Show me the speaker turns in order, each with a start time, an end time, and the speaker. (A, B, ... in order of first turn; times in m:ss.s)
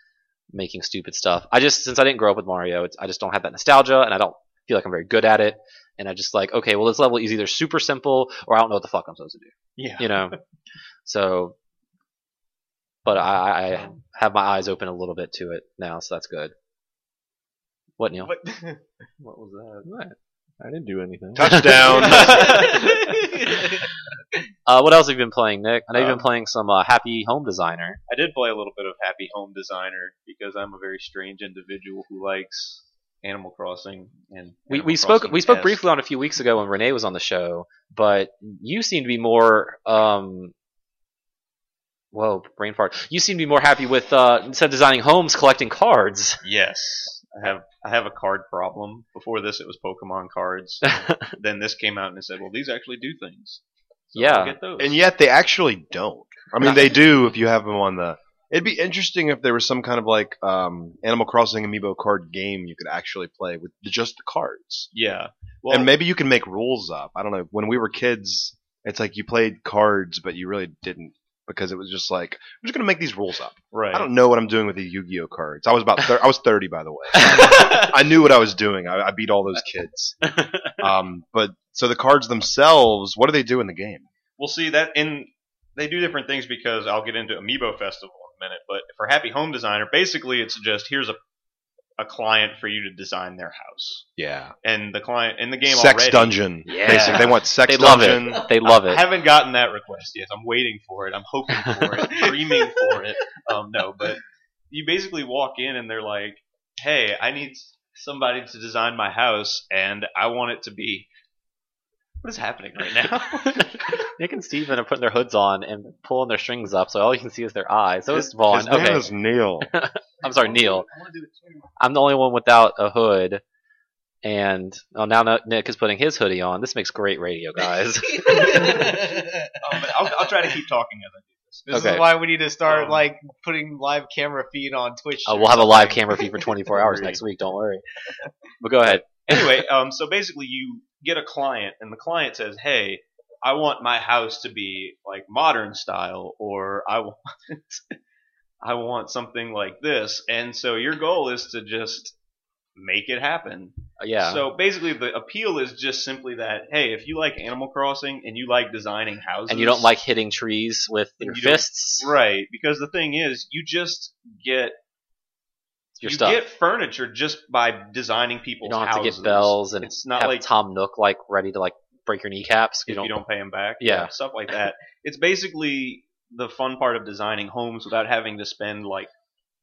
0:00.5-0:10.4 A
0:09.8-0:10.4 B
0:11.0-0:11.6 A
0:13.0-0:16.5 A
0:18.0-0:18.3 A
0:18.4-0:18.8 C
0:19.2-0:19.9 B
0:19.8-0:22.2 D
0:21.4-0:22.6 E
0:22.0-0:23.2 B
0:22.2-0:22.8 A
0:22.2-0:23.8 C
0:24.7-0:28.0 A
0:25.9-0:26.3 B
0:28.1-0:35.8 B
0:34.7-0:40.5 A
0:42.1-0:46.4 A
0:46.4-0:53.6 B
0:50.9-0:51.3 A
0:54.1-0:55.0 B
0:54.2-0:54.6 A
0:54.8-1:04.9 E
1:04.9-1:05.9 B
1:05.7-1:20.2 E
1:13.7-1:14.1 B
1:17.2-1:17.9 A
1:20.3-1:20.7 A
1:20.8-1:24.1 E
1:24.4-1:31.2 B
1:32.0-1:34.1 B
1:34.2-1:34.5 E
1:34.6-1:37.2 B
1:35.6-1:38.5 E
1:36.7-1:39.0 A
1:38.6-1:51.1 B
1:52.2-1:53.8 B
1:53.4-1:59.1 A
1:58.5-1:59.7 E
1:59.6-2:00.9 A
2:01.8-2:03.4 A
2:04.2-2:08.9 A
2:08.1-2:10.0 C
2:09.6-2:11.9 B
2:11.7-2:12.0 A
2:11.7-2:16.5 C
2:12.7-2:13.1 B
2:15.3-2:17.8 A
2:16.7-2:17.2 B
2:18.6-2:19.6 A
2:18.8-2:28.0 B
2:28.6-2:32.2 B
2:32.8-2:39.9 B
2:34.0-2:34.4 A
2:39.5-2:42.1 A
2:41.2-2:44.8 B
2:46.0-2:46.4 A
2:46.0-2:50.5 B
2:48.6-2:53.2 A
2:52.9-2:59.1 B
2:53.8-2:54.1 A